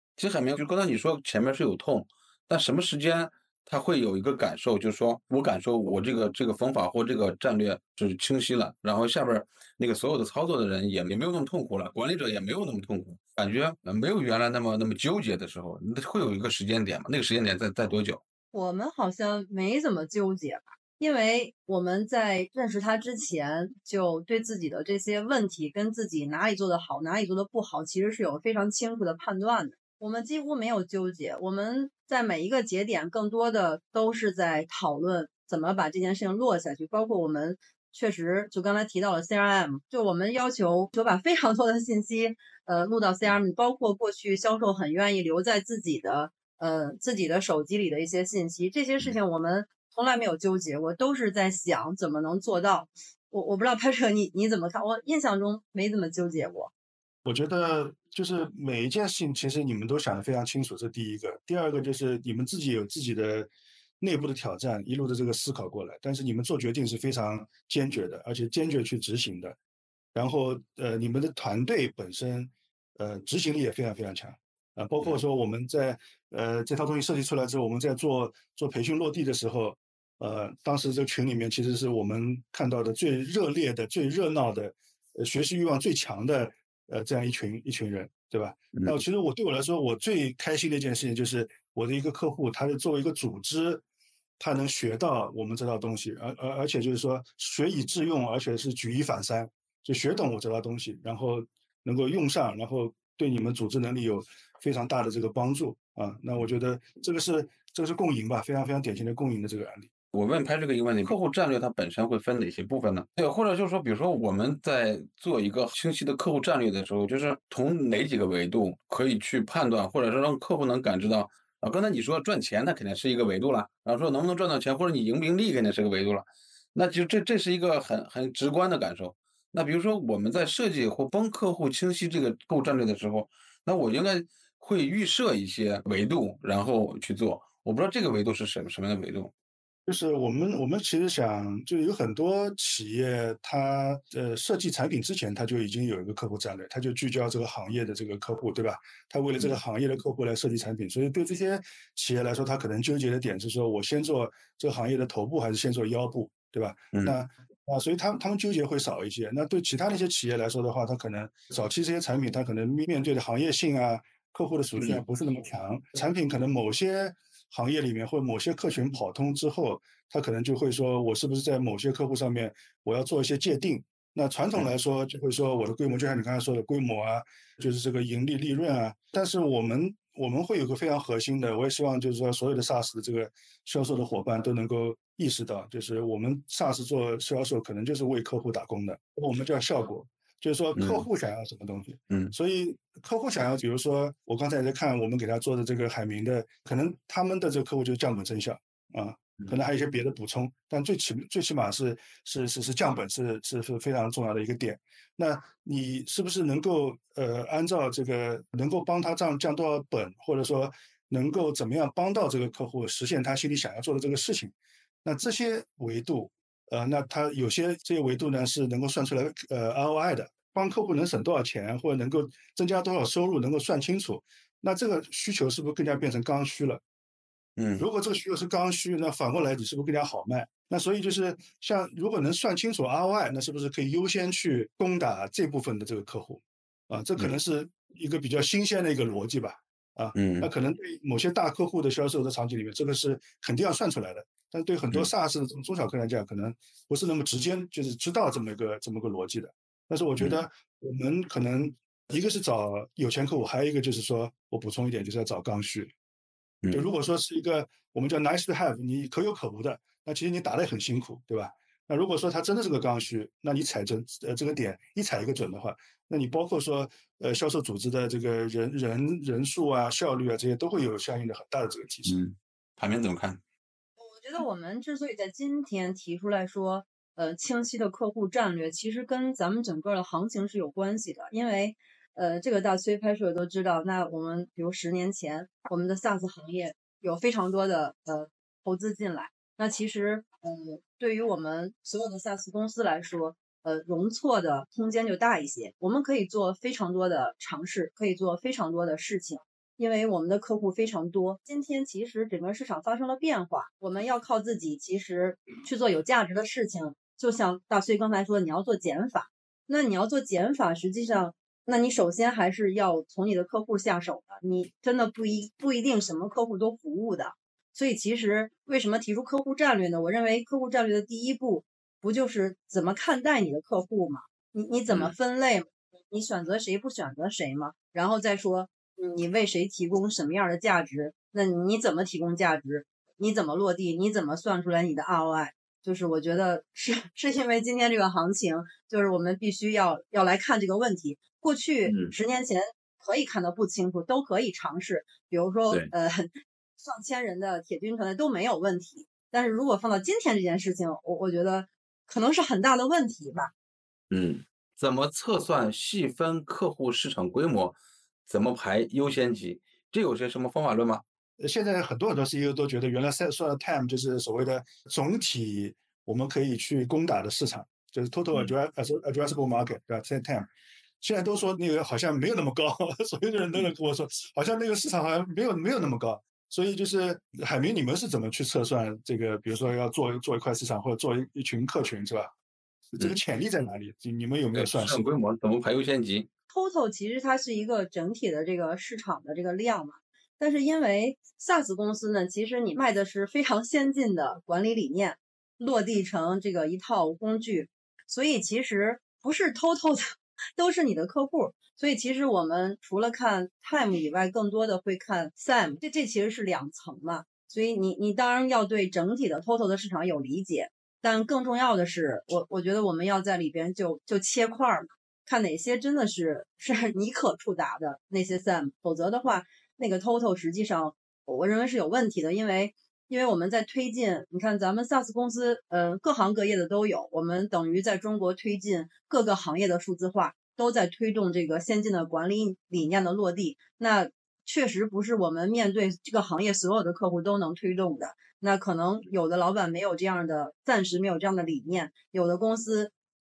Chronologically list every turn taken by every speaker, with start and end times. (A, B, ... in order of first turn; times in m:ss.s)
0:00.2-0:18.2 A
0:18.5-0:56.7 B
0:57.2-1:09.6 C
1:10.1-1:33.8 C
1:28.7-1:29.0 A
1:34.4-1:49.9 C
1:50.1-2:19.3 A
2:19.8-3:34.5 C
3:10.8-3:11.0 A
3:35.0-3:46.8 C
3:47.6-3:47.9 A
3:47.8-4:15.9 C
4:00.1-4:00.5 A
4:10.2-4:10.4 A
4:16.7-4:32.2 C
4:32.0-4:33.4 A
4:34.0-5:53.5 B
5:41.8-5:42.1 A
5:54.1-6:01.0 A
6:01.4-6:10.5 C
6:11.0-6:22.3 C
6:22.9-6:25.0 C
6:24.5-6:26.3 A
6:26.5-7:22.9 B